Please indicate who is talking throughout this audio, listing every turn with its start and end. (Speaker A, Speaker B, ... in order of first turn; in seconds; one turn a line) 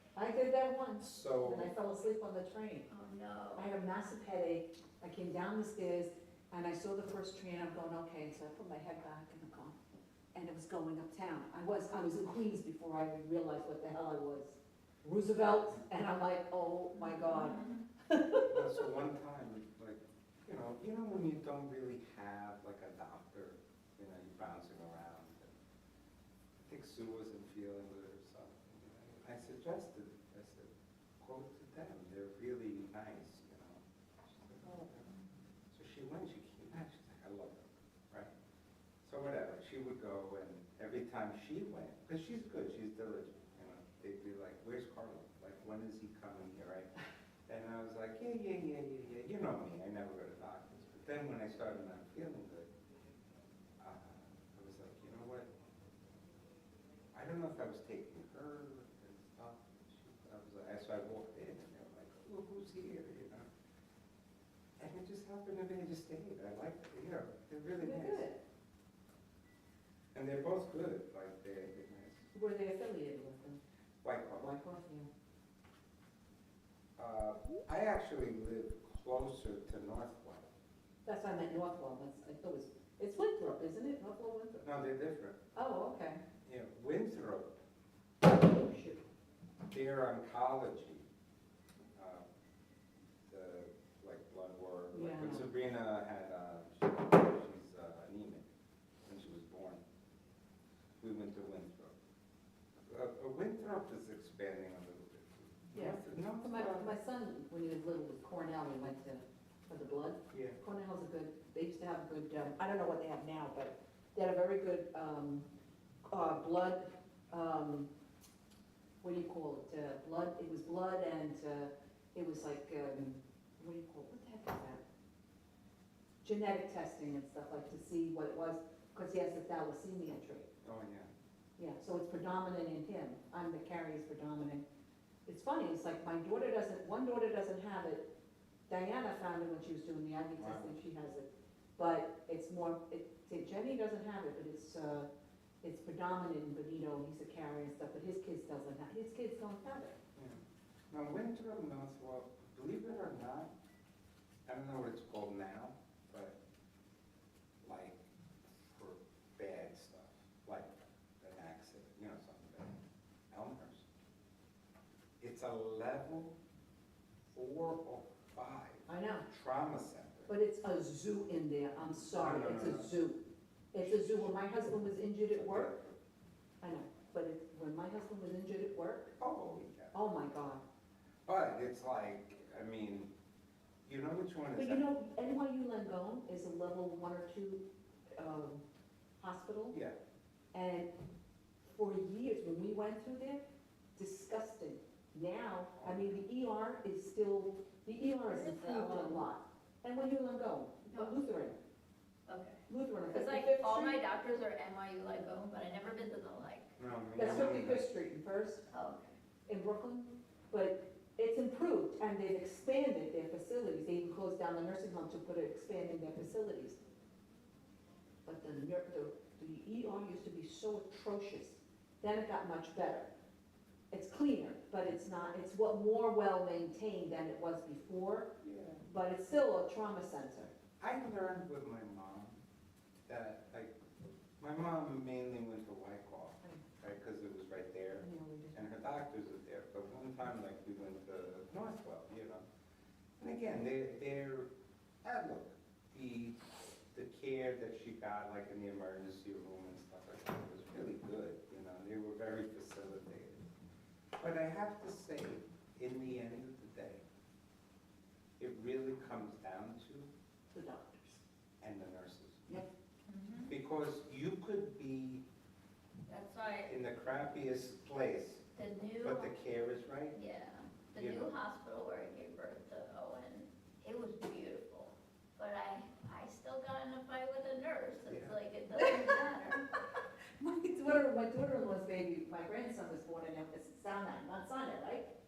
Speaker A: 0.1-2.9
Speaker B: 1.0-1.7
Speaker C: 2.9-3.7
Speaker A: 3.6-9.8
Speaker A: 10.3-18.8
Speaker C: 17.0-17.8
Speaker B: 18.4-25.5
Speaker B: 26.6-35.1
Speaker B: 35.7-38.3
Speaker B: 39.0-46.9
Speaker B: 47.5-52.7
Speaker B: 53.8-55.5
Speaker B: 57.1-63.5
Speaker B: 64.8-68.3
Speaker A: 67.8-68.4
Speaker B: 70.1-72.3
Speaker A: 72.3-73.6
Speaker B: 74.0-74.5
Speaker A: 74.3-75.1
Speaker B: 77.0-80.5
Speaker A: 81.0-84.6
Speaker B: 84.6-85.4
Speaker A: 85.5-86.2
Speaker B: 86.4-87.6
Speaker A: 88.2-89.0
Speaker B: 89.7-91.1
Speaker B: 91.9-92.2
Speaker B: 93.3-98.5
Speaker A: 94.9-95.5
Speaker B: 99.0-99.8
Speaker B: 101.0-101.9
Speaker B: 102.9-107.0
Speaker A: 105.7-115.5
Speaker B: 110.3-110.6
Speaker A: 116.0-117.9
Speaker A: 119.0-124.8
Speaker A: 126.2-130.5
Speaker B: 130.6-131.1
Speaker A: 131.6-134.7
Speaker A: 135.2-138.1
Speaker A: 138.7-145.1
Speaker B: 140.4-140.7
Speaker A: 145.6-150.0
Speaker B: 150.2-153.5
Speaker B: 154.4-156.4
Speaker B: 157.6-163.8
Speaker B: 165.2-166.3
Speaker B: 167.3-170.3
Speaker A: 168.9-169.2
Speaker A: 170.3-175.8
Speaker B: 172.1-172.9
Speaker B: 175.3-176.0
Speaker A: 176.6-179.2
Speaker B: 179.2-180.1
Speaker A: 179.9-180.6
Speaker B: 181.3-183.1
Speaker B: 183.8-184.9
Speaker A: 184.6-187.7
Speaker A: 188.2-188.6
Speaker A: 189.2-189.8
Speaker B: 189.7-190.0
Speaker A: 190.5-190.9
Speaker A: 191.7-193.4
Speaker A: 193.9-201.6
Speaker B: 195.8-196.2
Speaker C: 198.2-199.2
Speaker C: 200.9-201.2
Speaker C: 202.3-207.5
Speaker A: 202.7-204.0
Speaker B: 206.8-207.8
Speaker A: 207.2-208.7
Speaker C: 208.7-209.2
Speaker A: 209.5-216.8
Speaker A: 218.2-223.1
Speaker A: 223.9-228.3
Speaker B: 228.4-228.8
Speaker A: 228.8-230.5
Speaker B: 230.8-232.4
Speaker B: 233.1-242.4
Speaker A: 238.0-238.6
Speaker B: 243.2-244.5
Speaker B: 245.0-253.4
Speaker B: 254.2-257.0
Speaker B: 258.4-260.1
Speaker A: 260.5-261.2
Speaker B: 261.6-262.6
Speaker C: 263.1-263.5
Speaker B: 263.5-265.2
Speaker C: 266.1-266.7
Speaker B: 266.7-268.5
Speaker C: 268.6-269.3
Speaker B: 269.0-270.2
Speaker C: 270.1-279.7
Speaker B: 270.9-271.3
Speaker B: 278.1-278.4
Speaker A: 278.8-279.2
Speaker A: 280.4-285.1